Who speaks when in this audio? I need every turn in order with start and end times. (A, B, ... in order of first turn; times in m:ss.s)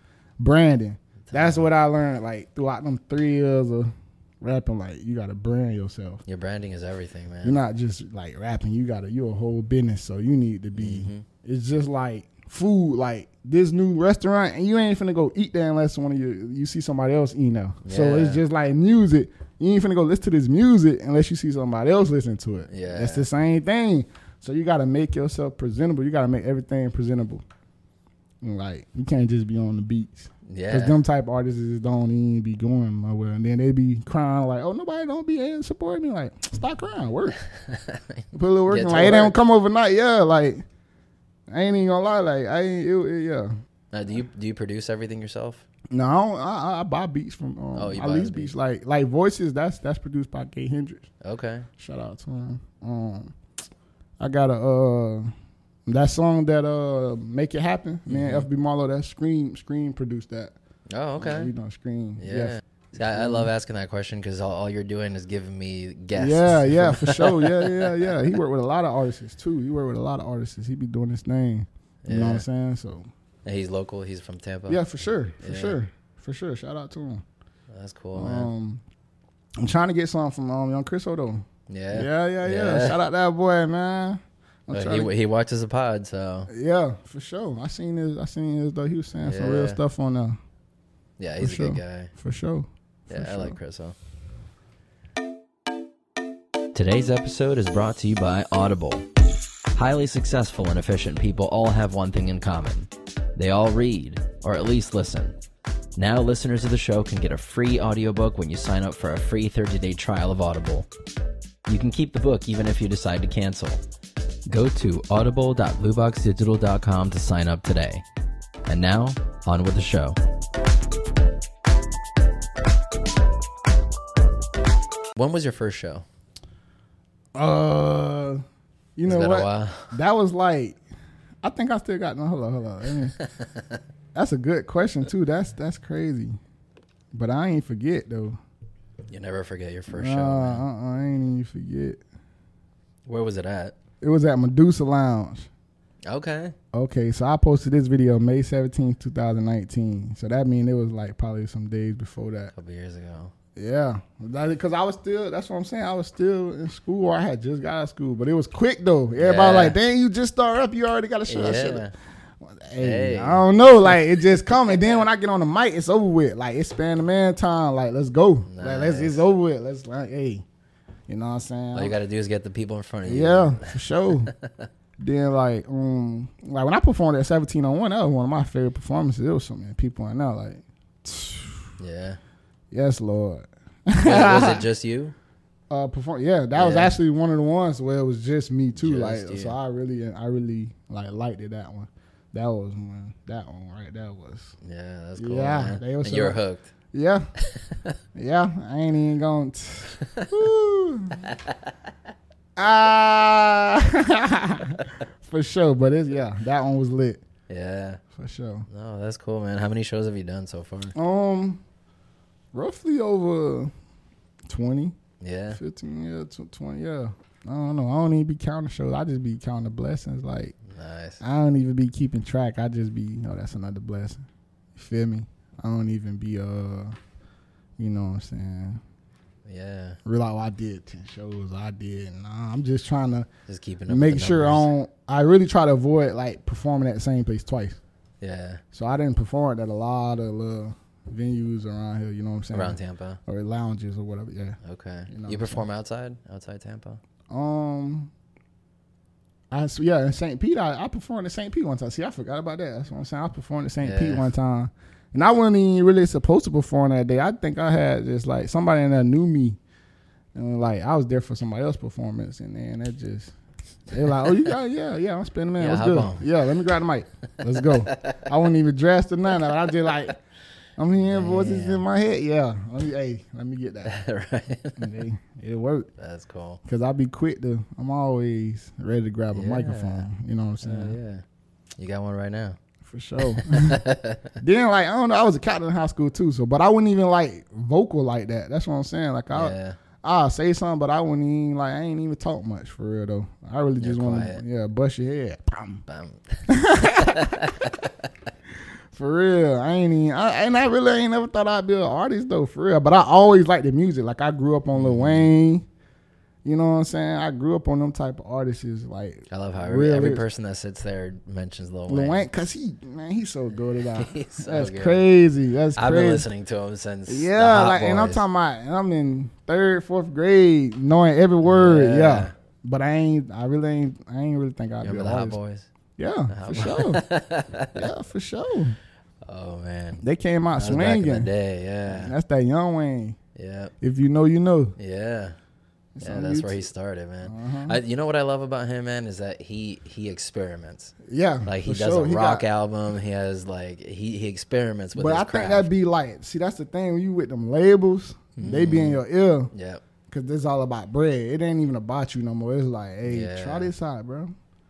0:00.4-0:06.2 A
0:01.2-0:01.7 B
0:06.2-0:07.6 B
0:07.4-0:27.4 A
0:10.7-0:11.2 B
0:17.8-0:18.4 B
0:22.7-0:23.3 B
0:28.4-0:37.4 A
0:30.4-0:31.0 B
0:37.5-0:39.4 B
0:38.3-0:40.6 A
0:41.5-0:43.5 A
0:43.9-0:45.6 B
0:45.9-0:51.1 A
0:47.7-0:48.5 B
0:51.2-0:51.7 B
0:51.8-0:53.3 A
0:54.2-0:55.3 A
0:55.9-1:00.5 A
0:58.1-0:58.5 B
1:00.9-1:01.5 B
1:01.2-1:03.5 A
1:02.2-1:08.2 B
1:06.1-1:13.0 A
1:12.0-1:12.4 B
1:13.4-1:14.8 B
1:14.7-1:17.2 A
1:15.4-1:15.8 B
1:17.7-1:18.5 B
1:18.1-1:18.8 A
1:19.6-1:25.1 A
1:21.7-1:23.0 B
1:24.7-1:26.5 B
1:26.5-1:30.4 A
1:29.2-1:29.8 B
1:31.2-1:32.1 B
1:31.4-1:33.6 A
1:33.1-1:33.9 B
1:36.7-1:39.0 B
1:39.7-1:45.3 B
1:46.0-1:50.9 B
1:51.6-1:53.8 B
1:54.5-1:58.0 B
1:58.7-2:00.2 B
2:05.2-2:06.0 B
2:07.3-2:08.4 A
2:09.0-2:10.8 A
2:09.0-2:09.9 B
2:11.4-2:13.1 A
2:13.2-2:13.6 B
2:14.1-2:16.4 A
2:17.1-2:18.4 A
2:19.1-2:20.6 B
2:19.9-2:22.0 A
2:23.1-2:23.8 B
2:24.0-2:25.5 A
2:26.0-2:26.5 B
2:26.7-2:32.5 A
2:32.5-2:33.3 B
2:33.6-2:41.9 A
2:39.2-2:39.8 B
2:41.3-2:41.9 B
2:42.4-2:50.4 A
2:42.8-2:44.0 B
2:48.5-2:49.2 B
2:51.1-2:51.9 A
2:51.7-2:54.7 B
2:53.0-2:54.3 A
2:55.0-3:01.6 A
3:01.8-3:02.2 B
3:02.7-3:04.6 A
3:04.0-3:05.1 B
3:05.7-3:14.5 A
3:06.5-3:07.0 B
3:08.8-3:09.6 B
3:14.6-3:16.7 B
3:15.2-3:16.4 A
3:16.9-3:17.3 A
3:17.5-3:17.9 B
3:18.1-3:21.3 A
3:20.0-3:20.3 B
3:21.2-3:21.7 B
3:22.6-3:27.2 A
3:27.5-3:28.0 B
3:28.1-3:28.7 A
3:28.7-3:30.9 B
3:30.9-3:31.6 A
3:32.5-3:33.7 A
3:34.4-3:35.0 A
3:35.2-3:35.6 B
3:35.5-3:40.5 A
3:40.7-3:41.2 B
3:41.2-3:47.0 A
3:47.8-3:48.8 A
3:49.4-3:50.0 B
3:50.0-3:53.3 A
3:53.5-3:54.7 B
3:53.9-3:57.8 A
3:58.2-3:58.6 B
3:58.7-4:04.6 A
4:02.5-4:03.2 B
4:04.6-4:07.0 B
4:05.1-4:05.6 A
4:07.3-4:08.1 A
4:09.5-4:19.6 A
4:13.8-4:14.3 B
4:20.3-4:23.3 A
4:23.9-4:30.2 A
4:24.1-4:24.5 B
4:25.6-4:26.2 B
4:27.5-4:28.3 B
4:30.8-4:33.9 A
4:31.0-4:31.8 B
4:33.8-4:34.9 B
4:34.8-4:35.9 A
4:36.0-4:36.6 B
4:36.6-4:41.0 A
4:39.3-4:40.1 B
4:40.6-4:41.2 B
4:41.8-4:42.6 B
4:42.8-4:43.8 A
4:43.2-4:44.3 B
4:44.4-4:55.8 A
4:49.3-4:49.8 B
4:53.8-4:54.4 B
4:55.8-4:57.9 B
4:56.5-4:57.5 A
4:58.9-5:05.6 A
5:04.7-5:05.3 B
5:06.4-5:10.2 A
5:09.3-5:12.3 B
5:11.9-5:16.3 A
5:13.9-5:15.0 B
5:15.8-5:18.2 B
5:17.1-5:25.4 A
5:21.4-5:22.3 B
5:24.8-5:25.7 B
5:26.0-5:27.0 A
5:26.3-5:27.9 B
5:27.8-5:28.8 A
5:29.3-5:30.0 B
5:30.0-5:31.3 A
5:30.5-5:32.1 B
5:31.9-5:33.2 A
5:33.4-5:33.7 B
5:33.8-5:34.7 A
5:34.8-5:35.4 B
5:36.0-5:36.6 A
5:36.0-5:40.9 B
5:37.2-5:37.8 A
5:41.0-5:42.4 A
5:41.4-5:45.7 B
5:44.9-5:49.5 A
5:48.4-5:49.8 B
5:50.1-5:54.3 A
5:53.0-5:53.7 B